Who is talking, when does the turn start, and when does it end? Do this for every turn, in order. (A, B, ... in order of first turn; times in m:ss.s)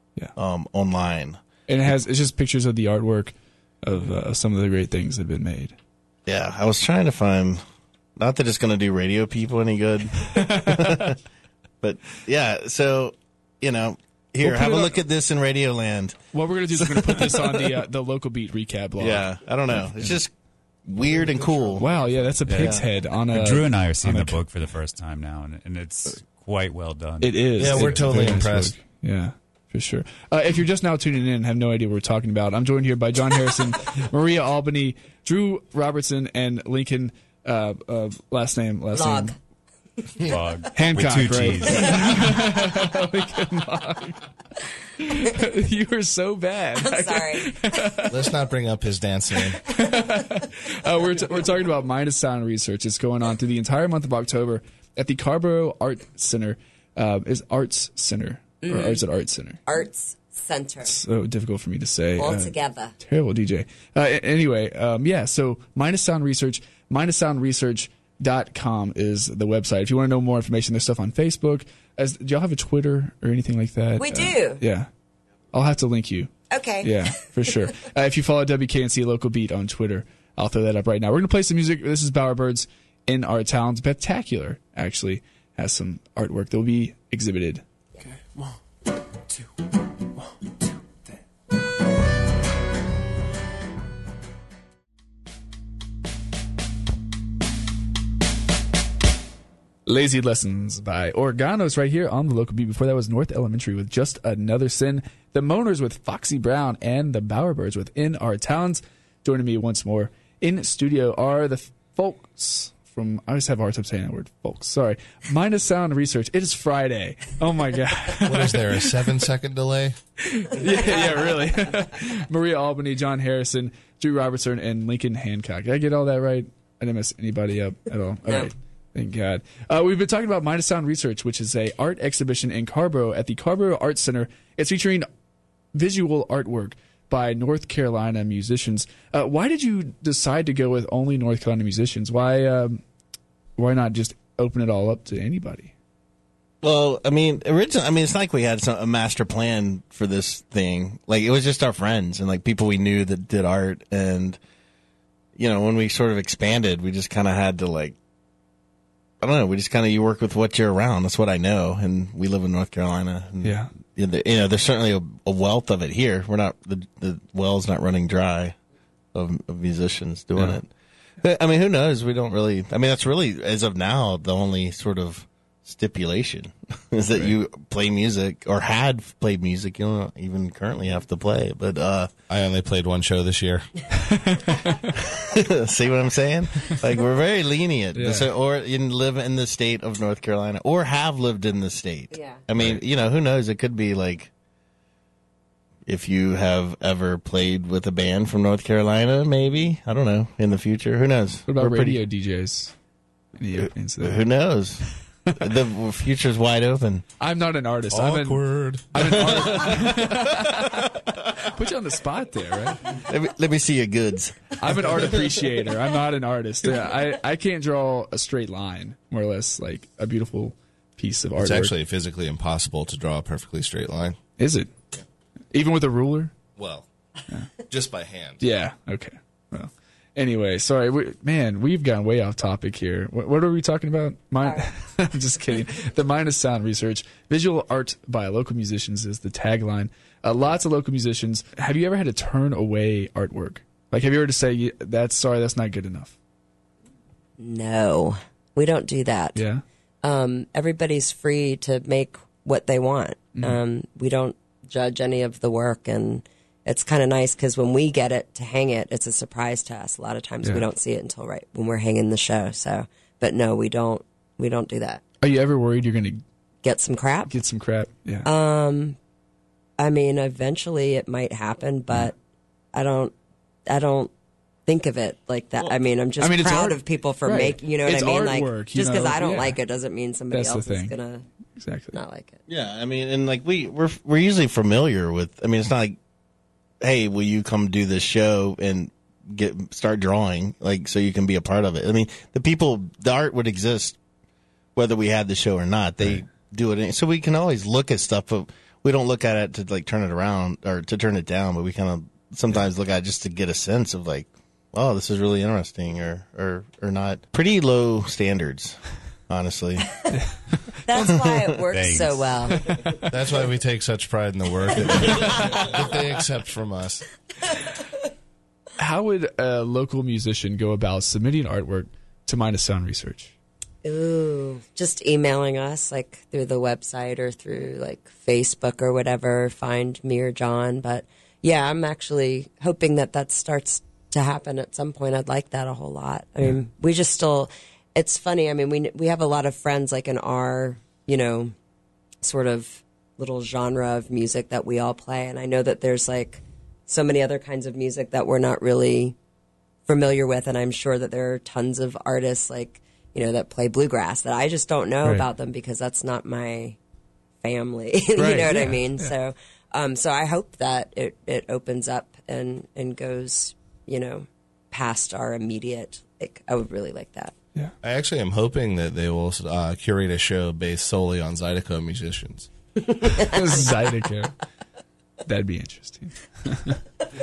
0:00.4-0:01.4 A
0:01.7-0:05.8 B
0:06.2-0:07.6 A
0:08.2-0:11.2 A
0:10.2-0:11.2 B
0:11.8-0:16.2 A
0:14.4-0:15.0 B
0:16.3-0:20.2 B
0:16.7-0:17.7 A
0:19.0-0:20.3 A
0:20.8-0:21.8 A
0:21.8-0:24.4 B
0:22.4-0:28.4 C
0:22.5-0:22.8 A
0:27.2-0:39.3 B
0:27.6-0:28.7 D
0:38.9-0:39.3 E
0:40.2-0:42.5 C
0:40.7-0:44.2 B
0:45.0-0:48.2 B
0:46.8-0:48.0 E
0:48.1-0:49.6 D
0:49.6-0:59.6 B
0:58.6-0:59.0 E
0:59.6-1:00.9 E
1:00.8-1:14.9 B
1:02.2-1:02.9 E
1:14.0-1:14.6 E
1:15.5-1:27.6 B
1:16.5-1:17.0 E
1:39.8-1:58.9 B
1:58.2-2:00.0 D
2:00.2-2:15.1 B
2:15.7-2:22.8 B
2:23.6-2:25.7 B
2:26.6-2:34.4 A
2:35.4-2:38.0 A
2:39.2-2:48.6 A
2:43.4-2:43.7 B
2:49.1-3:02.1 A
3:02.3-3:03.7 D
3:04.1-3:04.8 B
3:05.1-3:14.3 A
3:07.9-3:08.3 B
3:12.1-3:12.4 E
3:15.8-3:22.0 A
3:21.5-3:22.8 B
3:23.4-3:24.2 B
3:24.0-3:27.0 A
3:27.2-3:33.0 B
3:27.9-3:30.7 D
3:32.9-3:35.1 A
3:34.6-3:41.7 B
3:41.4-3:44.2 D
3:44.4-3:44.7 B
3:45.5-3:46.3 B
3:46.6-3:46.8 D
3:47.7-3:48.4 D
3:48.4-4:06.2 B
4:07.4-4:09.4 E
4:09.3-4:09.6 B
4:10.0-4:25.0 E
4:25.2-4:26.2 B
4:26.6-4:27.3 E
4:27.3-4:28.3 B
4:28.2-4:29.0 E
4:29.8-4:32.2 E
4:32.7-4:33.1 E
4:33.7-4:34.1 E
4:34.7-4:41.2 E
4:36.2-4:39.6 B
4:40.3-4:40.9 B
4:41.6-4:42.0 B
4:41.9-4:42.4 E
4:42.5-4:46.0 A
4:46.8-4:54.0 A
4:54.8-5:09.9 A
5:10.8-5:12.7 E
5:11.1-5:11.4 A
5:11.7-5:12.6 C
5:12.5-5:13.0 B
5:13.0-5:17.0 D
5:18.8-5:23.3 B
5:23.8-5:41.5 E
5:42.2-5:49.2 E
5:49.8-5:56.8 E
5:57.4-6:07.3 E
5:58.2-5:59.1 B
6:07.8-6:12.5 D
6:12.9-6:13.6 E
6:13.1-6:14.4 B
6:15.2-6:16.8 B